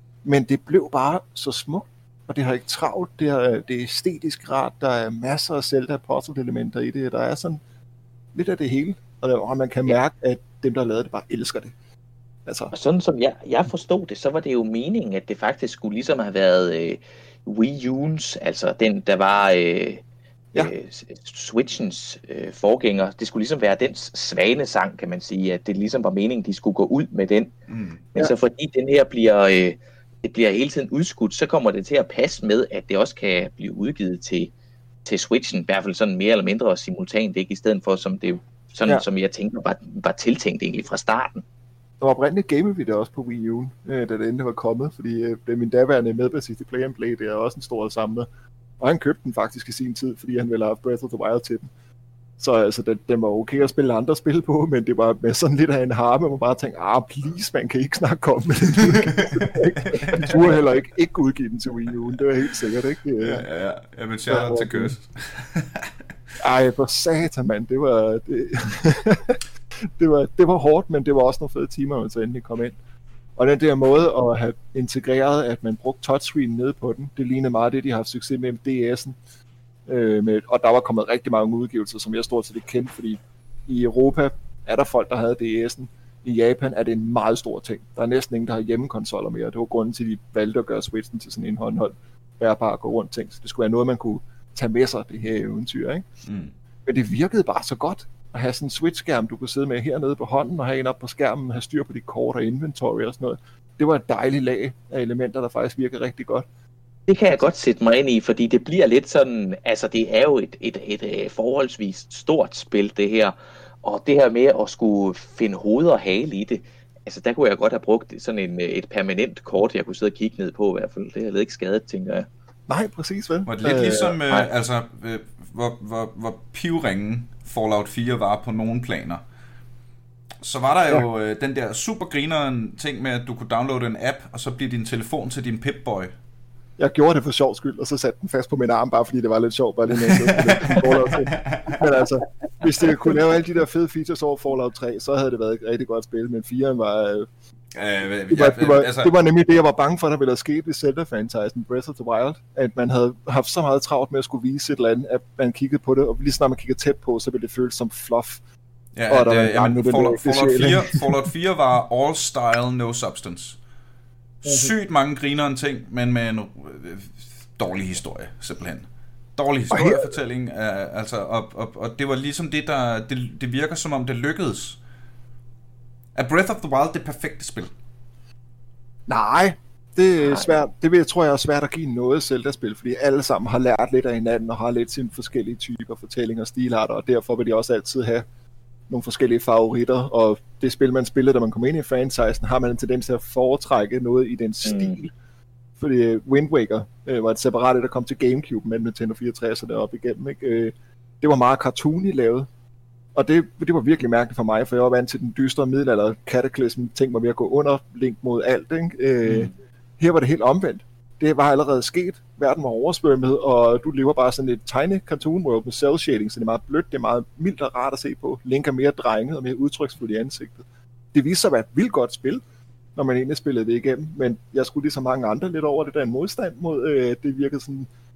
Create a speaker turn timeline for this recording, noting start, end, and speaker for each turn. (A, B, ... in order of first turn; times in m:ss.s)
0:00.2-0:07.6 A
0:08.3-0:11.7 A
0:12.4-0:12.7 A
0:12.7-0:20.0 B
0:20.6-0:27.5 B
0:27.7-0:28.0 C
0:28.1-0:34.5 B
0:35.0-0:41.4 B
0:42.0-0:48.3 A
0:48.8-0:51.7 A
0:52.4-1:03.4 A
0:58.9-1:00.4 C
1:03.2-1:05.9 C
1:04.3-1:04.9 A
1:06.4-1:12.7 A
1:13.4-1:19.2 A
1:19.9-1:36.0 A
1:36.3-1:36.5 C
1:36.8-1:46.4 A
1:47.1-2:02.3 B
2:02.7-2:04.2 A
2:03.4-2:09.2 C
2:10.4-2:16.1 C
2:16.8-2:27.3 A
2:20.0-2:21.8 C
2:27.7-2:29.1 C
2:28.3-2:38.4 A
2:39.0-2:43.6 C
2:39.1-2:41.1 A
2:44.4-2:54.8 C
2:44.4-2:44.7 A
2:49.7-2:50.1 A
2:56.1-2:57.7 C
2:59.1-3:08.2 A
3:08.9-3:15.1 A
3:14.6-3:14.9 B
3:15.8-3:22.5 A
3:23.1-3:40.6 A
3:29.2-3:29.5 C
3:41.1-3:42.4 A
3:43.0-3:47.9 A